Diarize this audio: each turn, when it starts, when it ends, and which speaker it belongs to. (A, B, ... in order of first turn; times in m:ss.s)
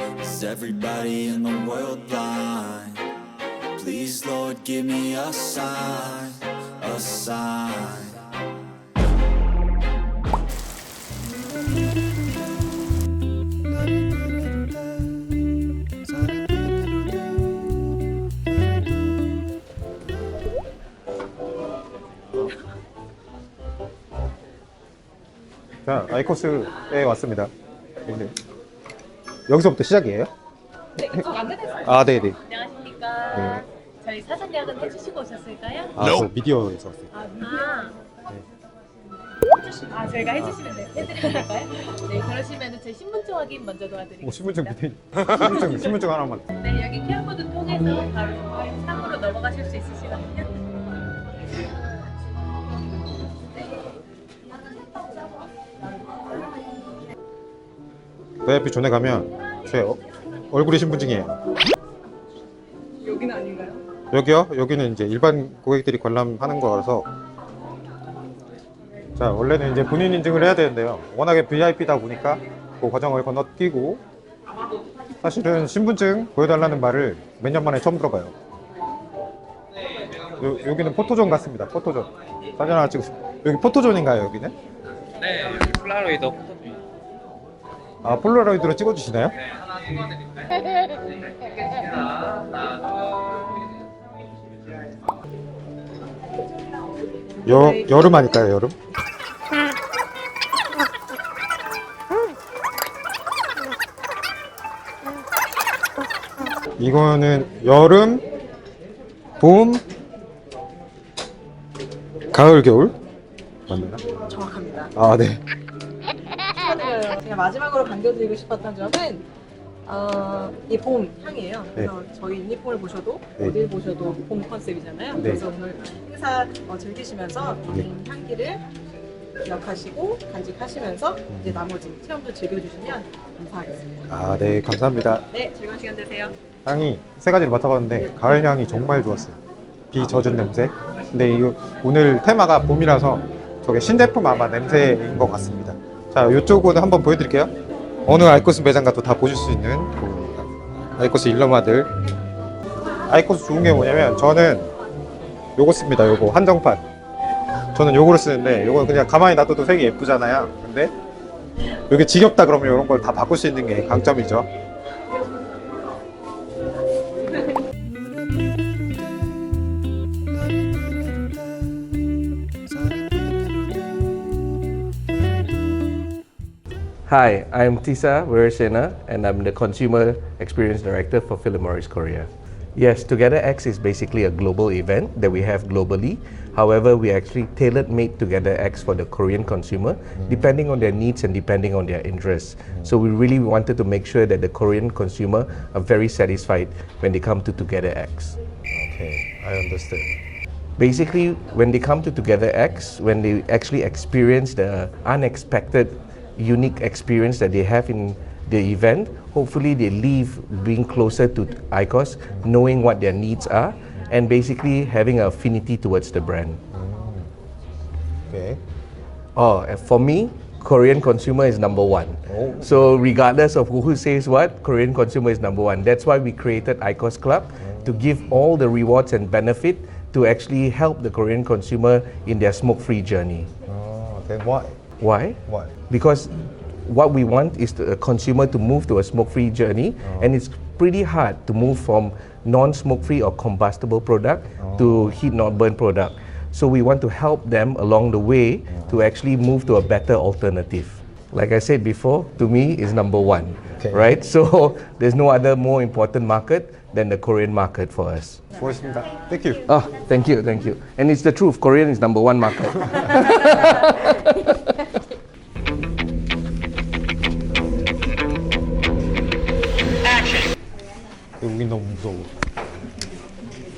0:00.2-0:03.0 A
0:03.7-0:08.2 A
0:25.8-0:27.5 B
0:28.0-0:28.3 B
0:29.5-0:30.3 B
0:31.0-0:31.9 C
0:31.0-0:32.4 B
0:32.5-0:35.9 D
0:33.3-0:33.6 B
0:35.9-0:37.1 B
0:37.2-0:37.8 C
0:37.4-0:37.9 D
0:39.6-0:44.8 D
0:40.4-0:41.4 B
0:44.2-0:46.5 B
0:46.6-0:50.5 D
0:58.4-1:01.4 B
1:03.0-1:03.8 C
1:04.1-1:07.1 B
1:09.2-1:14.0 B
1:15.2-1:18.3 B
1:20.4-1:24.5 B
1:25.2-1:26.8 E
1:28.0-1:29.3 B
1:31.5-1:32.8 E
1:37.4-1:38.2 C
1:37.4-1:38.8 B
1:46.8-1:48.2 B
1:49.4-1:49.8 B
1:52.3-1:53.0 B
1:53.7-1:54.0 B
1:54.2-1:54.9 C
1:55.0-1:55.4 B
1:56.5-1:59.2 C
1:59.8-2:08.6 C
2:05.2-2:05.4 B
2:09.4-2:14.0 C
2:11.3-2:11.6 B
2:14.1-2:15.2 B
2:15.3-2:16.3 C
2:16.6-2:19.4 B
2:19.9-2:27.5 B
2:28.0-2:31.9 B
2:33.1-2:34.7 B
2:35.6-2:36.8 B
2:37.7-2:40.9 B
2:41.9-2:44.5 B
2:57.1-3:18.4 F
3:10.2-3:10.5 B
3:18.7-3:20.1 B
3:20.8-3:36.6 F
3:36.7-3:37.3 B
3:38.3-3:38.6 B
3:39.4-3:53.5 F
3:42.3-3:42.8 B
3:47.6-3:48.0 B
3:53.6-3:54.8 B
3:55.0-4:18.4 F
3:55.4-3:55.7 B
4:00.0-4:00.3 B
4:04.6-4:05.1 B
4:13.8-4:14.1 B
4:18.5-4:19.7 B
4:19.6-4:24.7 F
4:31.4-4:32.3 B